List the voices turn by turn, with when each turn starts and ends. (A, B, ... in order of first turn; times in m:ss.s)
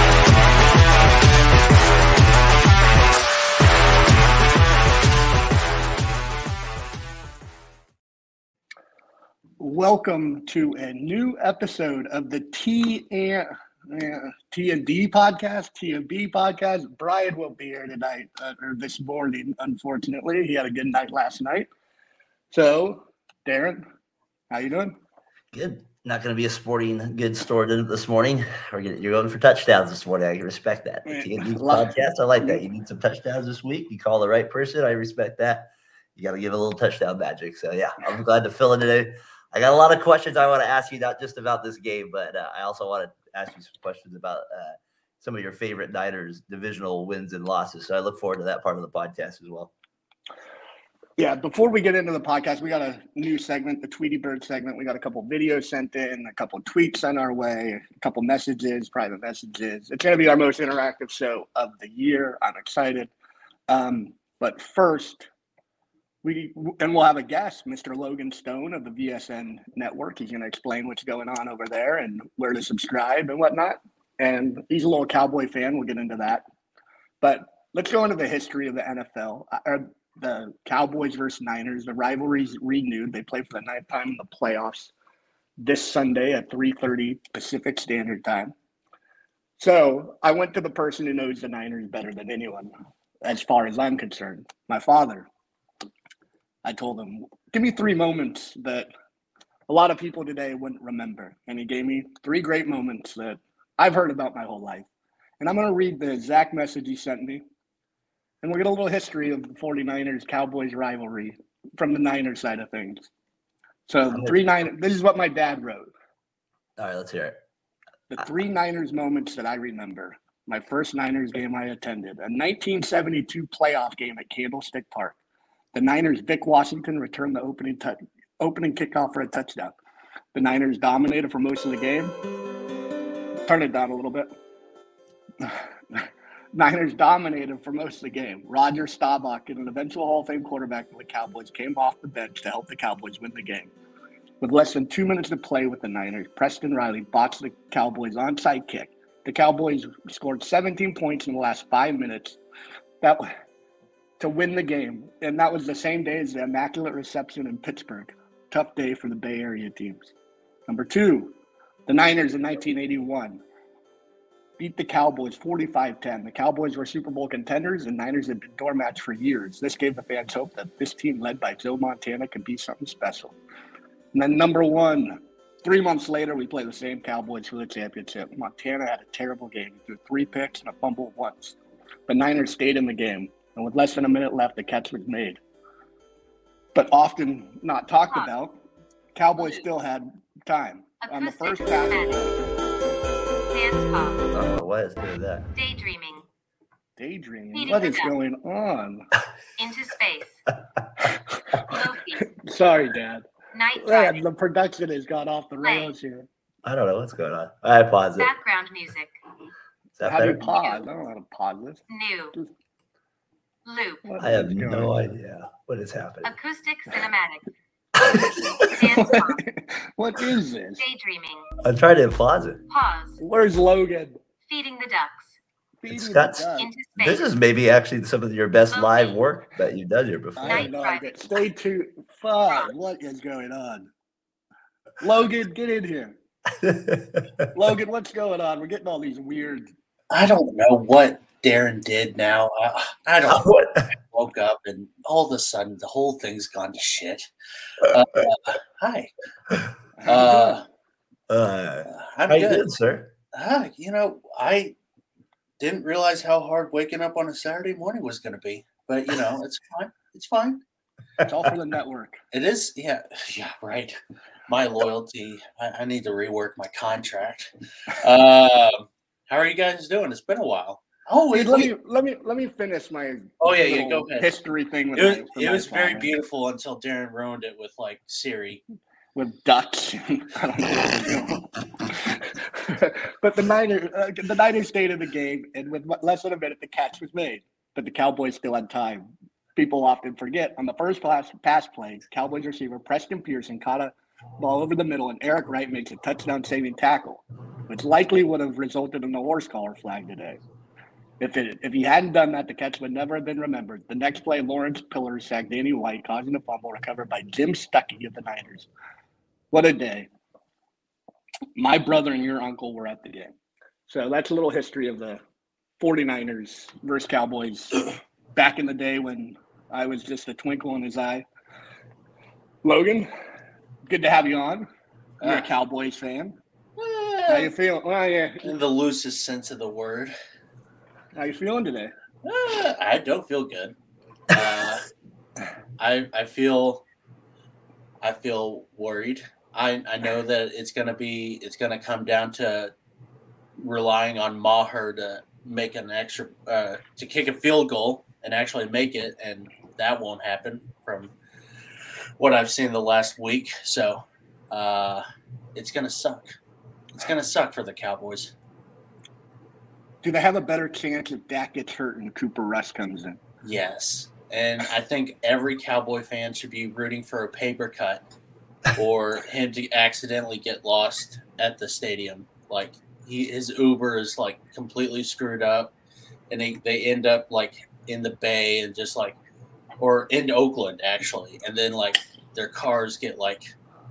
0:09.6-0:21.7 A
0:22.5-0:23.8 A
0:24.5-0:25.0 A
0:25.5-0:49.7 B
0:31.1-0:31.9 A
0:51.2-1:03.1 A
1:03.7-1:05.3 A
1:06.2-1:16.4 A
1:17.2-1:24.9 A
1:25.6-1:28.5 A
1:29.6-1:32.7 A
1:33.2-1:35.3 A
1:36.6-1:38.9 A
1:39.7-1:44.9 A
1:45.4-1:47.4 A
1:48.4-1:53.1 A
1:53.9-1:55.9 A
1:56.8-1:57.4 B
1:58.1-2:05.2 A
2:05.7-2:09.7 A
2:10.3-2:12.2 A
2:13.5-2:14.3 A
2:15.4-2:23.7 A
2:24.4-2:32.4 A
2:33.0-2:33.3 A
2:34.2-2:40.1 A
2:40.7-2:41.3 A
2:41.9-2:43.4 A
2:44.6-2:53.4 A
2:54.1-3:01.6 A
3:02.1-3:05.4 A
3:06.8-3:08.6 A
3:09.2-3:12.3 A
3:09.4-3:09.6 C
3:11.0-3:12.2 C
3:13.5-3:14.3 C
3:14.3-3:15.5 B
3:15.5-3:16.3 C
3:17.0-3:19.1 A
3:17.5-3:18.1 C
3:19.6-3:20.4 C
3:21.6-3:22.3 C
3:22.2-3:26.3 A
3:23.5-3:24.2 C
3:25.6-3:25.9 C
3:26.6-3:28.3 B
3:28.2-3:29.2 C
3:30.0-3:30.4 B
3:30.0-3:32.5 A
3:30.4-3:30.8 C
3:31.9-3:32.4 C
3:33.6-3:34.1 C
3:34.0-3:34.9 A
3:34.2-3:36.3 B
3:36.2-3:37.5 C
3:38.0-3:38.7 B
3:38.6-3:39.4 C
3:38.7-3:40.8 A
3:40.8-3:41.5 C
3:41.6-3:42.6 B
3:42.7-3:43.2 C
3:43.2-3:44.2 A
3:44.5-3:45.4 C
3:45.8-3:46.7 A
3:45.9-3:50.7 B
3:46.6-3:47.2 C
3:48.7-3:49.2 C
3:50.4-3:53.9 A
3:50.4-3:51.4 C
3:55.0-3:56.2 A
3:56.6-3:57.5 B
3:57.5-3:59.7 A
4:00.1-4:07.3 D
4:03.3-4:03.9 B
4:07.8-4:09.1 D
4:09.6-4:10.6 B
4:10.0-4:10.6 D
4:11.3-4:13.1 B
4:11.9-4:12.7 D
4:13.3-4:14.8 D
4:15.6-4:20.6 D
4:21.2-4:22.2 A
4:22.3-4:31.7 D
4:31.3-4:36.1 A
4:33.4-4:34.3 D
4:35.0-4:38.6 D
4:39.2-5:00.4 A
5:01.2-5:08.7 A
5:09.5-5:10.1 A
5:11.6-5:13.3 A
5:13.9-5:15.2 A
5:15.8-5:21.2 A
5:22.6-5:23.1 A
5:23.9-5:24.7 A
5:25.2-5:25.5 D
5:25.2-5:26.4 A
5:27.0-5:27.2 D
5:27.3-5:28.5 A
5:28.4-5:30.1 D
5:31.2-5:31.9 A
5:32.2-5:33.8 D
5:34.3-5:34.9 D
5:35.8-5:36.8 D
5:38.0-5:42.7 D
5:43.6-5:51.1 D
5:52.2-5:55.0 D
5:55.6-5:56.4 D
5:56.9-5:58.3 D
6:00.0-6:03.2 A
6:03.4-6:08.0 D
6:08.7-6:15.7 D
6:16.3-6:19.2 D
6:19.8-6:23.5 D